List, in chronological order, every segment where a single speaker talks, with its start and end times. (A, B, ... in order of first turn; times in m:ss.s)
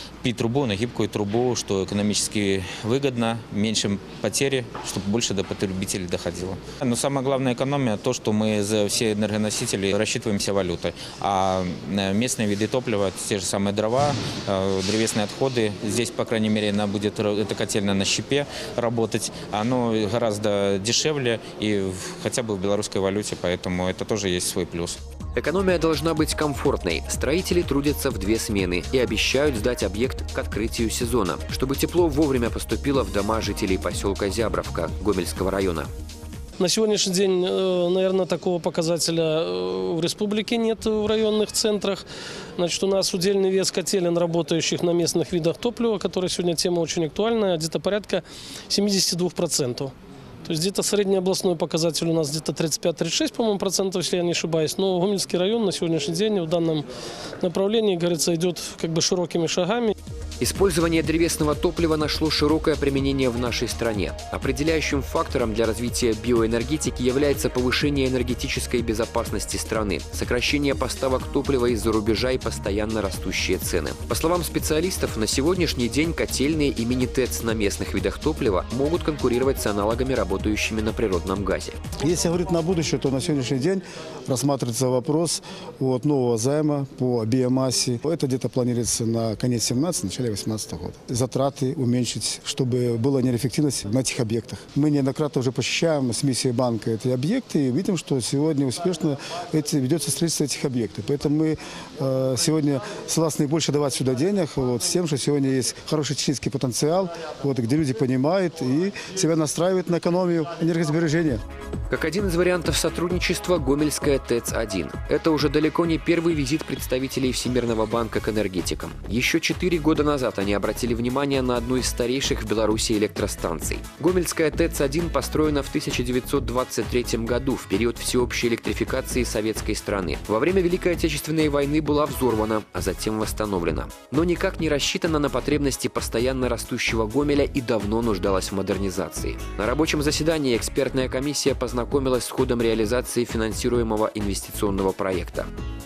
0:00.2-0:25.0 A
0:25.4-0:35.9 B
0:36.6-0:42.0 C
0:42.6-0:49.9 C
0:50.4-0:56.8 C
0:57.4-0:59.9 C
1:00.4-1:21.8 B
1:22.0-1:51.4 D
1:51.9-2:25.5 B